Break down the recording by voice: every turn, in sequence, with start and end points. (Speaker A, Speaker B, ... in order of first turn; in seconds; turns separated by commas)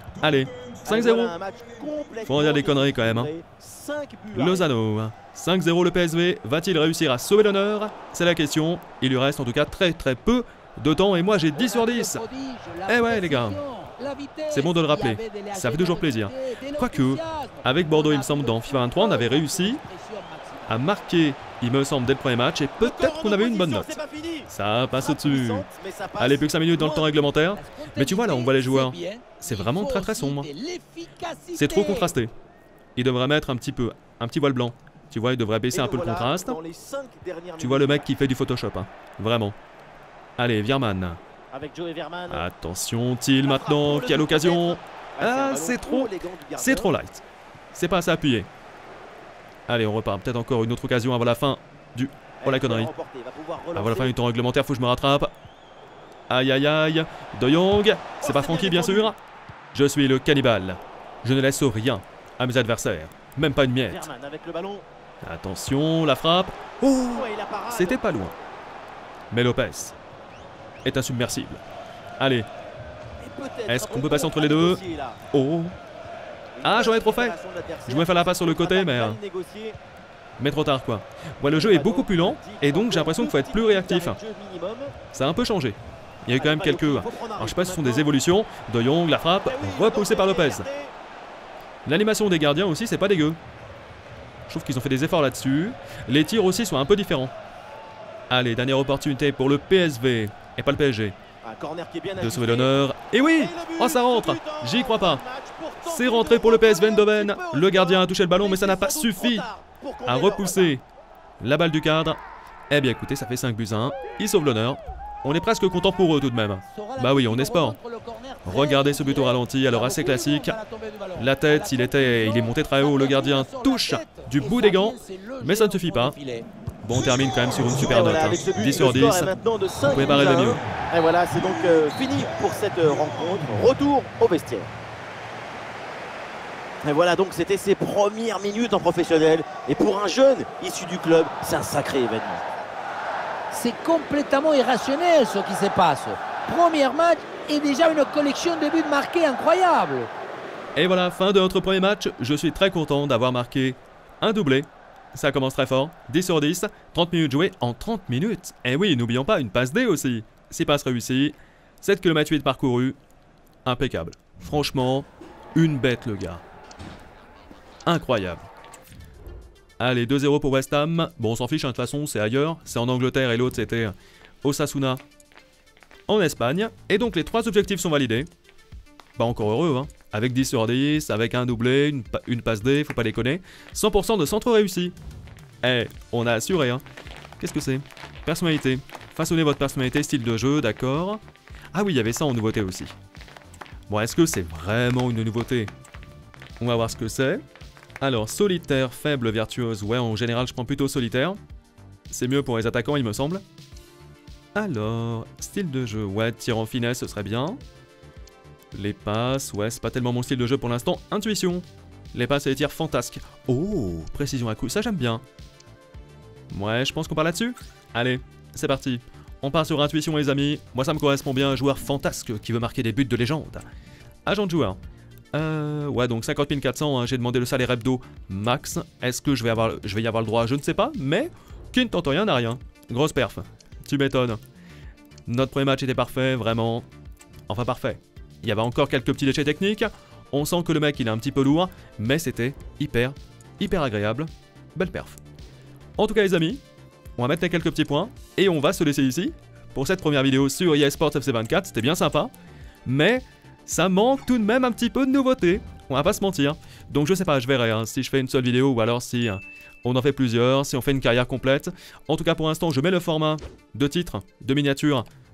Speaker A: 0.2-1.3, Speaker B: 0.8-4.7, Speaker A: 2.2-3.3, Speaker A: 4.3-12.2, Speaker C: 11.5-20.8, Speaker A: 12.8-13.6, Speaker A: 14.5-19.8, Speaker A: 20.7-25.7, Speaker B: 22.8-27.2, Speaker A: 26.2-30.5, Speaker C: 27.5-32.1, Speaker A: 31.5-32.3, Speaker A: 33.0-36.6, Speaker B: 35.7-38.1, Speaker A: 37.6-39.6, Speaker A: 40.4-41.2, Speaker B: 41.5-42.4, Speaker A: 42.3-48.5, Speaker B: 43.4-46.9, Speaker A: 49.7-52.9, Speaker B: 52.4-54.1, Speaker A: 53.7-55.3, Speaker A: 56.3-59.2, Speaker B: 58.2-59.1, Speaker A: 59.7-64.1, Speaker B: 63.9-64.8, Speaker A: 65.2-68.3, Speaker B: 67.1-68.1, Speaker A: 69.3-70.0, Speaker A: 70.8-71.6, Speaker A: 72.2-72.5, Speaker B: 73.2-75.2, Speaker A: 73.7-74.8, Speaker A: 75.3-75.8, Speaker B: 76.6-79.8, Speaker A: 76.6-79.2, Speaker A: 80.4-84.2, Speaker B: 81.5-84.9, Speaker A: 85.1-90.7, Speaker B: 86.3-88.1, Speaker B: 89.4-90.9, Speaker A: 91.8-93.4, Speaker A: 94.5-97.3, Speaker A: 98.3-101.2, Speaker B: 101.4-110.7, Speaker A: 102.2-105.2, Speaker A: 105.8-109.5, Speaker A: 110.0-110.8, Speaker A: 111.4-112.2, Speaker A: 112.7-117.8, Speaker C: 116.6-126.5, Speaker A: 118.5-120.6, Speaker A: 121.2-126.2, Speaker A: 126.8-129.3, Speaker B: 127.8-134.7, Speaker A: 129.9-130.6, Speaker B: 136.8-142.4, Speaker C: 143.5-150.1, Speaker A: 150.8-163.0, Speaker A: 163.6-166.4, Speaker A: 167.8-168.4, Speaker A: 169.8-175.0, Speaker A: 176.1-178.3, Speaker A: 179.2-184.9, Speaker A: 185.6-186.8, Speaker A: 187.4-191.2, Speaker A: 191.7-192.9, Speaker A: 193.9-195.7, Speaker A: 196.6-197.4, Speaker A: 198.0-201.4, Speaker A: 202.1-203.4, Speaker A: 204.5-207.6, Speaker A: 208.7-215.2, Speaker A: 216.5-223.7, Speaker A: 224.2-224.8, Speaker A: 225.3-234.4, Speaker A: 235.3-236.8, Speaker A: 237.5-245.2, Speaker A: 246.0-246.6, Speaker A: 247.2-252.3, Speaker A: 252.8-265.1